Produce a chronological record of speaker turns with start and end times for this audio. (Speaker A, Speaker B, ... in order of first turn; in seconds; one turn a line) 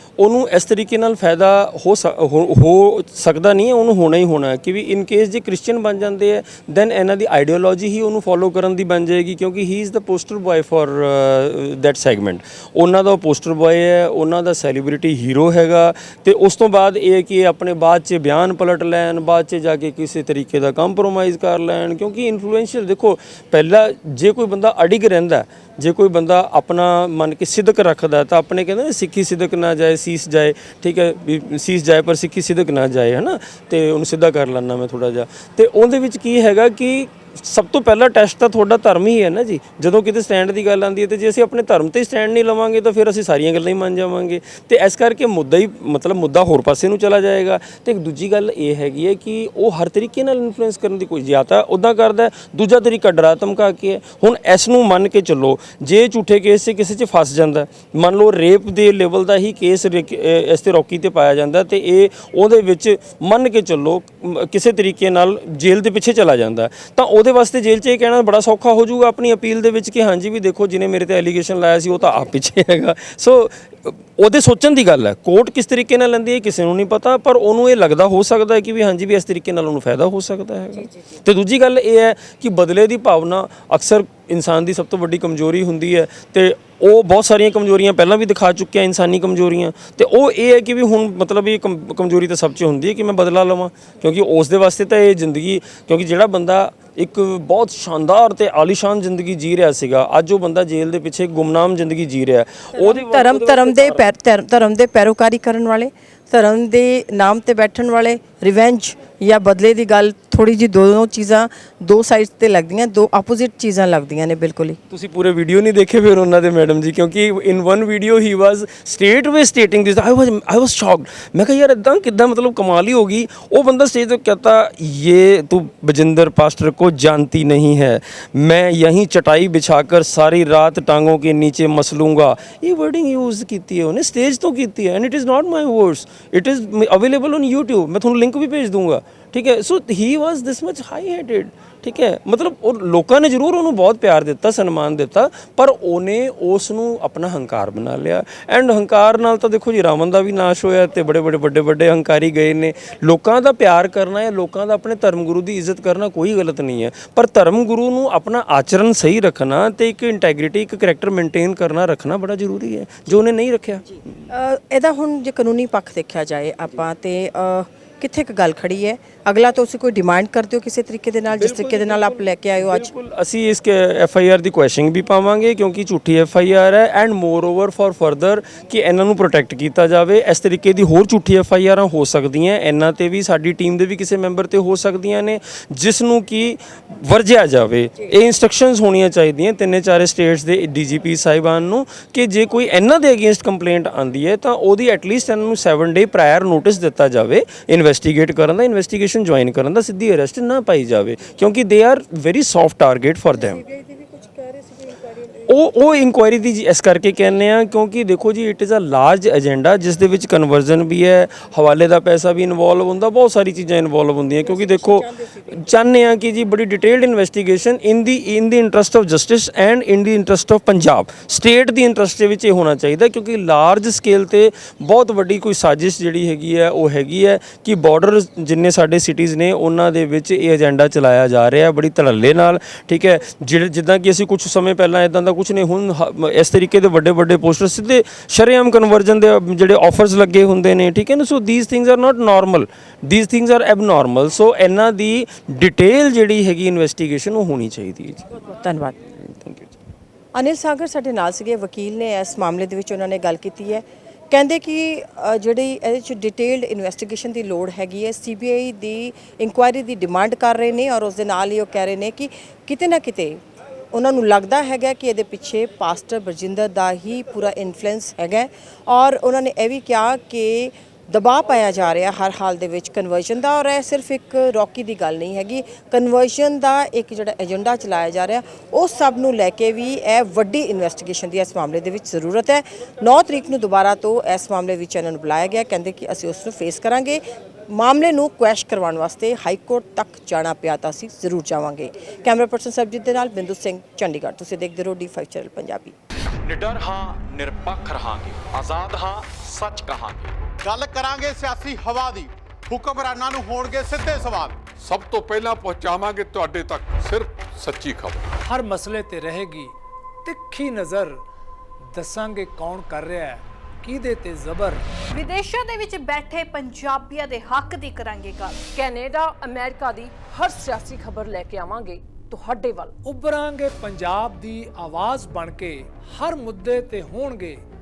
Speaker A: 0.2-104.0
Speaker B: 102.7-114.8
Speaker A: 114.9-164.0
Speaker B: 164.3-172.9
Speaker A: 171.4-203.6
Speaker B: 203.8-204.7
Speaker A: 205.3-248.3
Speaker B: 248.3-249.0
Speaker A: 249.2-249.8
Speaker B: 250.3-263.4
Speaker B: 263.9-295.9
Speaker C: 296.4-300.4
Speaker D: 300.6-304.6
Speaker E: 304.6-308.2
Speaker F: 308.4-309.7
Speaker F: 310.2-311.2
Speaker F: 311.9-314.8
Speaker G: 315.1-318.7
Speaker H: 318.6-322.9
Speaker F: 323.0-327.6